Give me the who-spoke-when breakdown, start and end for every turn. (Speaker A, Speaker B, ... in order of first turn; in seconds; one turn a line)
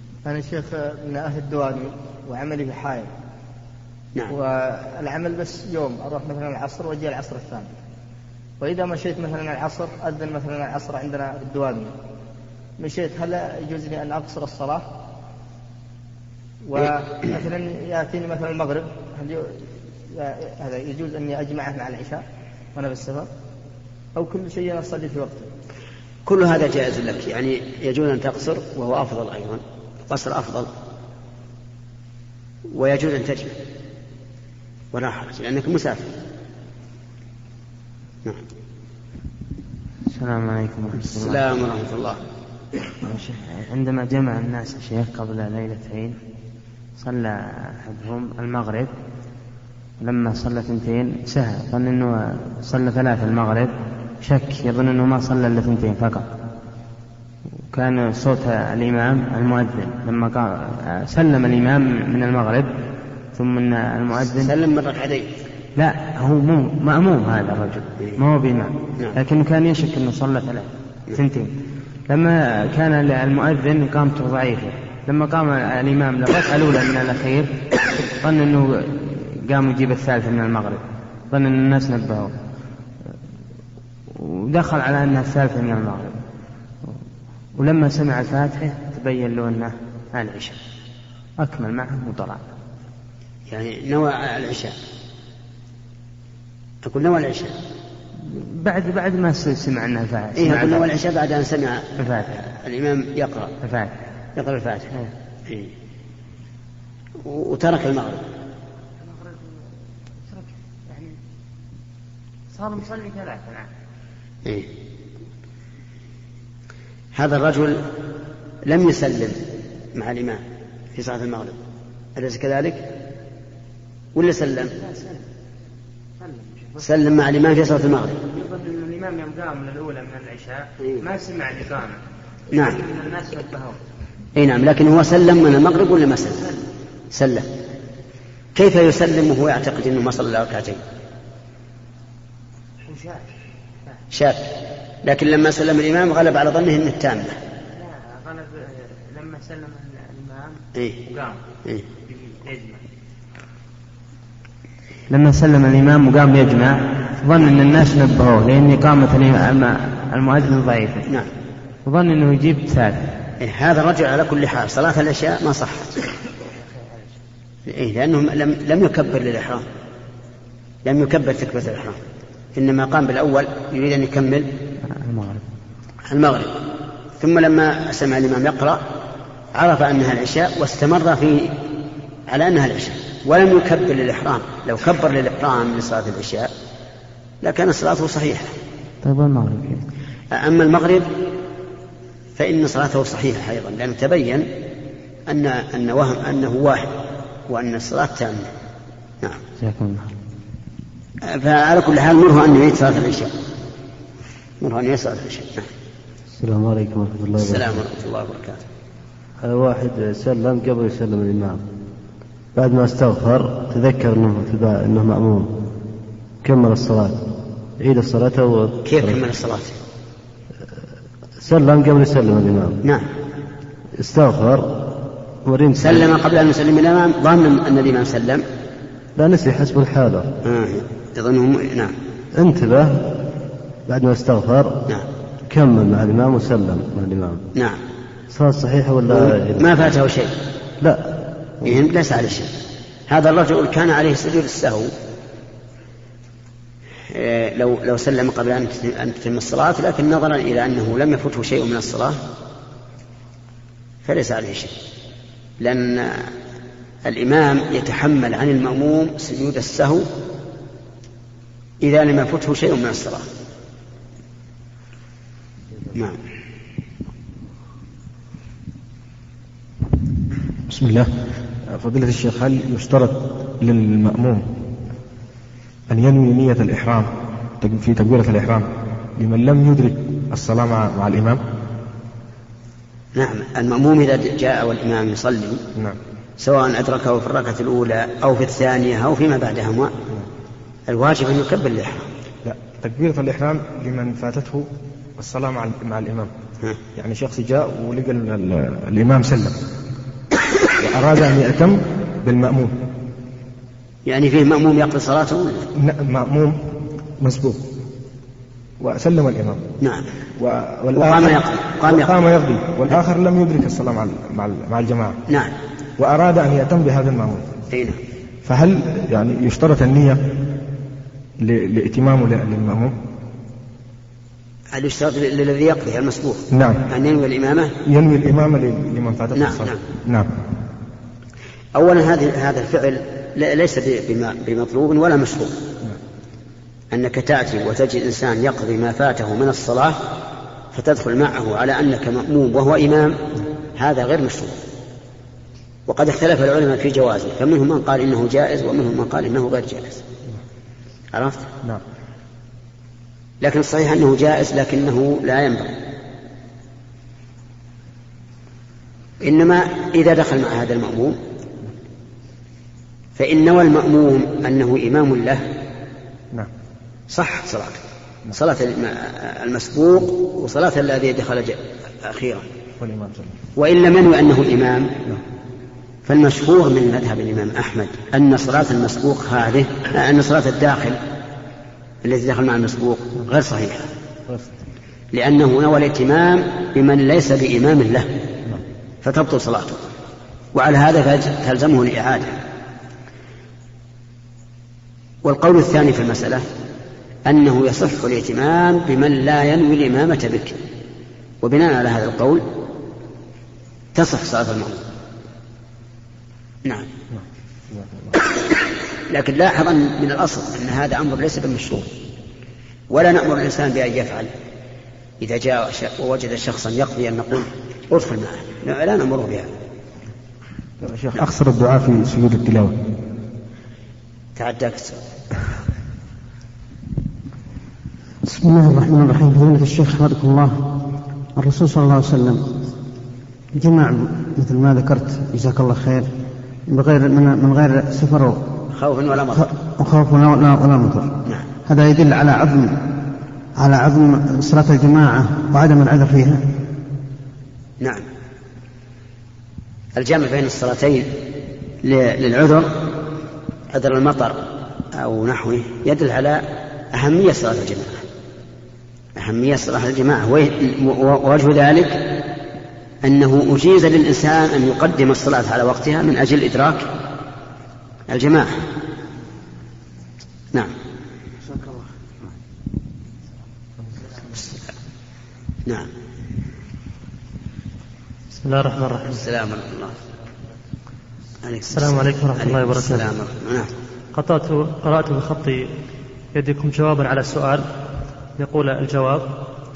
Speaker A: 0.2-3.1
Speaker A: 4.3-7.7
Speaker A: 8.6-11.9
Speaker A: 12.8-14.9
Speaker A: 16.6-22.2
Speaker A: 22.7-23.3
Speaker A: 24.1-25.5
Speaker B: 26.2-30.7
Speaker B: 32.7-33.5
Speaker B: 34.9-36.1
Speaker C: 40.1-41.4
Speaker B: 41.0-42.2
Speaker C: 43.0-46.2
Speaker C: 47.0-48.9
Speaker C: 50.0-56.3
Speaker C: 57.7-62.7
Speaker C: 63.3-64.5
Speaker B: 64.4-65.3
Speaker C: 65.8-71.5
Speaker C: 72.1-82.3
Speaker C: 84.1-86.2
Speaker C: 87.6-90.6
Speaker C: 91.4-92.4
Speaker B: 93.5-94.7
Speaker B: 96.8-97.5
Speaker C: 98.2-100.9
Speaker B: 100.4-103.5
Speaker C: 102.0-102.4
Speaker C: 103.6-103.9
Speaker B: 104.3-104.9
Speaker B: 107.2-108.2
Speaker C: 109.0-109.4
Speaker C: 110.3-111.1
Speaker C: 112.5-113.7
Speaker B: 117.1-117.8
Speaker B: 118.7-119.4
Speaker B: 119.9-120.4
Speaker B: 121.0-121.6
Speaker B: 122.2-122.8
Speaker B: 124.1-124.7
Speaker C: 124.6-125.2
Speaker C: 126.2-126.9
Speaker B: 126.8-128.2
Speaker C: 128.3-132.0
Speaker B: 132.5-132.8
Speaker C: 132.6-133.8
Speaker B: 134.4-136.4
Speaker B: 137.1-137.5
Speaker B: 138.5-140.8
Speaker C: 142.8-143.2
Speaker B: 144.1-144.4
Speaker B: 145.0-147.4
Speaker C: 147.7-151.4
Speaker C: 152.0-152.8
Speaker C: 155.1-161.0
Speaker C: 161.8-163.0
Speaker B: 163.4-166.0
Speaker B: 167.7-169.7
Speaker B: 170.8-172.0
Speaker B: 172.6-174.5
Speaker C: 174.9-175.4
Speaker B: 176.1-176.6
Speaker B: 177.2-178.8
Speaker B: 179.5-181.6
Speaker B: 182.3-186.5
Speaker B: 187.4-188.5
Speaker C: 189.0-189.8
Speaker B: 190.3-191.1
Speaker B: 192.4-194.5
Speaker B: 195.3-196.9
Speaker B: 197.5-198.5
Speaker C: 199.6-200.1
Speaker B: 201.3-203.3
Speaker B: 204.6-205.7
Speaker D: 206.4-207.7
Speaker B: 207.4-208.6
Speaker D: 209.4-211.6
Speaker D: 212.6-215.5
Speaker D: 216.4-217.2
Speaker D: 217.8-219.2
Speaker B: 218.8-219.8
Speaker D: 221.4-222.8
Speaker D: 224.0-224.8
Speaker D: 225.4-226.1
Speaker B: 225.8-228.4
Speaker D: 229.2-230.3
Speaker B: 230.4-231.9
Speaker D: 232.3-233.1
Speaker D: 233.9-234.8
Speaker D: 235.5-237.4
Speaker B: 237.5-237.8
Speaker D: 238.3-239.7
Speaker B: 239.1-240.3
Speaker D: 240.8-241.7
Speaker B: 241.6-242.5
Speaker B: 243.1-244.9
Speaker B: 247.1-252.2
Speaker B: 254.0-254.7
Speaker B: 255.6-256.3
Speaker B: 257.1-260.1
Speaker B: 261.8-263.3
Speaker B: 265.9-266.2
Speaker E: 270.7-271.1
Speaker E: 271.7-274.5
Speaker E: 275.9-277.1
Speaker E: 277.6-281.4
Speaker B: 283.1-285.6
Speaker B: 286.4-289.9
Speaker B: 290.9-292.1
Speaker E: 292.4-296.3
Speaker E: 296.9-299.5
Speaker E: 300.8-302.7
Speaker B: 304.1-305.7
Speaker E: 305.8-306.6
Speaker E: 307.2-307.6
Speaker E: 308.8-309.6
Speaker E: 310.4-315.2
Speaker B: 310.9-312.1
Speaker B: 315.3-315.5
Speaker E: 316.0-317.5
Speaker B: 317.7-318.0
Speaker E: 318.4-320.2
Speaker E: 321.4-322.9
Speaker B: 324.7-327.7
Speaker E: 326.5-326.8
Speaker E: 327.9-330.3
Speaker B: 329.3-329.8
Speaker B: 331.7-335.6
Speaker B: 336.9-340.0
Speaker B: 340.7-343.2
Speaker B: 343.8-344.6
Speaker B: 345.9-350.0
Speaker B: 351.1-351.5
Speaker B: 353.4-355.8
Speaker B: 359.2-361.2
Speaker B: 363.2-365.5
Speaker B: 367.1-372.4
Speaker E: 372.8-373.3
Speaker B: 373.6-374.9
Speaker B: 376.1-381.0
Speaker B: 382.0-383.9
Speaker B: 385.1-388.1
Speaker B: 389.0-389.9
Speaker B: 390.5-392.3
Speaker B: 395.2-396.4
Speaker B: 397.2-400.6
Speaker B: 401.4-402.4
Speaker B: 403.9-404.9
Speaker E: 407.7-408.1
Speaker B: 409.1-411.9
Speaker B: 412.9-414.3
Speaker B: 415.2-419.5
Speaker E: 420.8-422.7
Speaker B: 424.4-425.0
Speaker F: 428.2-430.6
Speaker F: 431.4-432.4
Speaker F: 433.5-436.1
Speaker F: 436.7-438.4
Speaker B: 438.7-439.5
Speaker F: 439.3-441.1
Speaker F: 441.7-442.8
Speaker F: 443.6-446.4
Speaker B: 447.8-448.1
Speaker B: 449.9-451.1
Speaker B: 451.8-452.7
Speaker B: 453.7-458.0
Speaker B: 459.2-462.2
Speaker B: 463.0-466.9
Speaker B: 468.1-468.6
Speaker G: 478.4-479.1
Speaker B: 479.0-479.9
Speaker B: 481.4-483.7
Speaker G: 481.7-483.1
Speaker G: 484.1-485.7
Speaker G: 486.3-487.7
Speaker G: 488.4-489.3